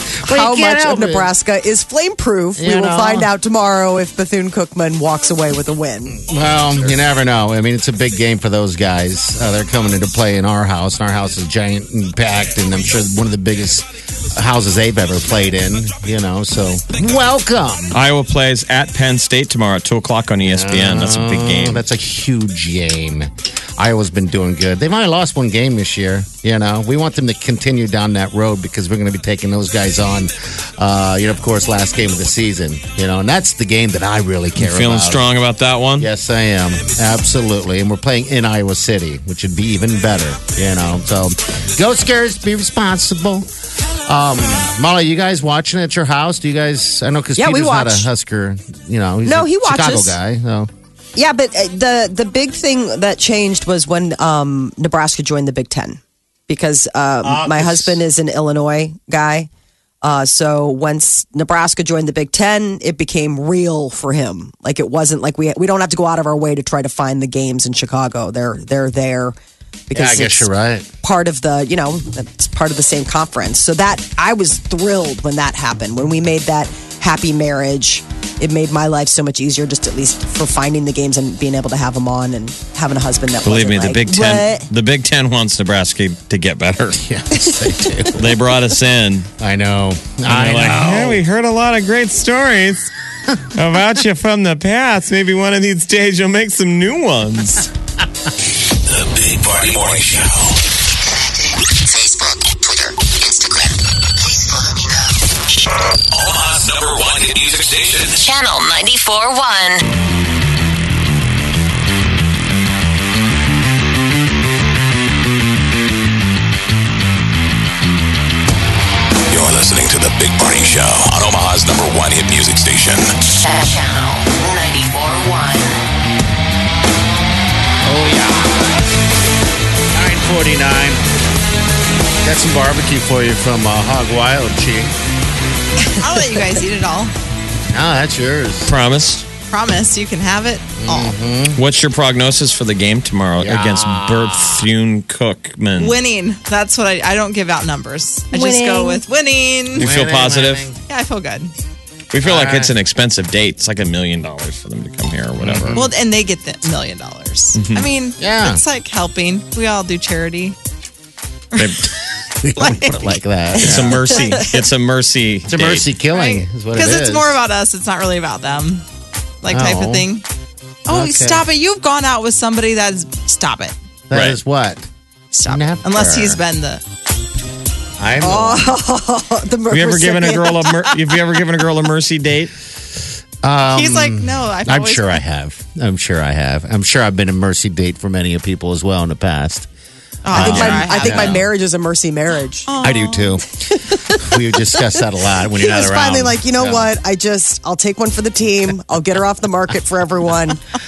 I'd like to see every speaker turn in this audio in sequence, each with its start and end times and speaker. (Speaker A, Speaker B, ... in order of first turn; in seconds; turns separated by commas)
Speaker A: 0.2-6.9, Speaker B: 0.2-1.3, Speaker B: 2.6-3.3, Speaker B: 6.2-18.0, Speaker C: 17.9-21.9, Speaker B: 20.4-35.3, Speaker C: 34.6-36.1, Speaker B: 36.0-43.5, Speaker B: 44.1-50.7, Speaker A: 47.4-48.1, Speaker A: 49.2-50.2, Speaker A: 51.1-59.5, Speaker B: 57.2-58.0, Speaker A: 60.0-69.3, Speaker A: 69.9-70.5, Speaker B: 69.9-70.8, Speaker A: 71.0-84.7, Speaker C: 83.4-87.0, Speaker B: 87.0-88.3, Speaker C: 88.1-89.3, Speaker B: 89.4-91.2, Speaker C: 90.3-92.9, Speaker C: 93.5-97.7, Speaker D: 98.8-100.5, Speaker E: 101.8-103.7, Speaker E: 104.4-104.7, Speaker D: 106.1-108.2, Speaker E: 108.2-109.8, Speaker D: 119.3-123.1, Speaker E: 123.4-125.7, Speaker B: 127.8-128.6, Speaker B: 129.9-131.0, Speaker B: 132.2-134.9, Speaker F: 136.0-137.1, Speaker B: 137.7-138.7, Speaker C: 138.7-139.3, Speaker F: 139.5-141.2, Speaker B: 140.8-141.6, Speaker C: 141.5-145.9, Speaker B: 143.4-144.7, Speaker F: 145.8-149.9, Speaker A: 148.3-149.0, Speaker C: 149.7-150.7, Speaker B: 149.8-150.8, Speaker F: 150.9-151.5, Speaker C: 152.1-155.8, Speaker B: 152.2-152.7, Speaker B: 155.4-155.9, Speaker F: 155.8-160.6, Speaker C: 157.5-157.9, Speaker B: 158.2-158.6, Speaker C: 161.6-161.8, Speaker B: 162.4-164.1, Speaker F: 162.6-164.5, Speaker C: 163.6-165.9, Speaker B: 165.5-167.4, Speaker F: 166.1-168.8, Speaker F: 169.4-170.2, Speaker B: 169.5-170.1, Speaker F: 170.9-173.7, Speaker B: 170.9-171.5, Speaker B: 174.1-174.9, Speaker C: 174.1-174.4, Speaker F: 175.3-176.8, Speaker B: 175.4-176.4, Speaker B: 178.0-178.7, Speaker A: 178.2-181.0, Speaker C: 179.7-182.5, Speaker B: 183.4-189.7, Speaker F: 183.7-185.2, Speaker F: 190.2-191.4, Speaker B: 190.3-191.4, Speaker A: 190.3-192.7, Speaker F: 192.7-193.3, Speaker B: 192.8-196.9, Speaker A: 193.7-200.6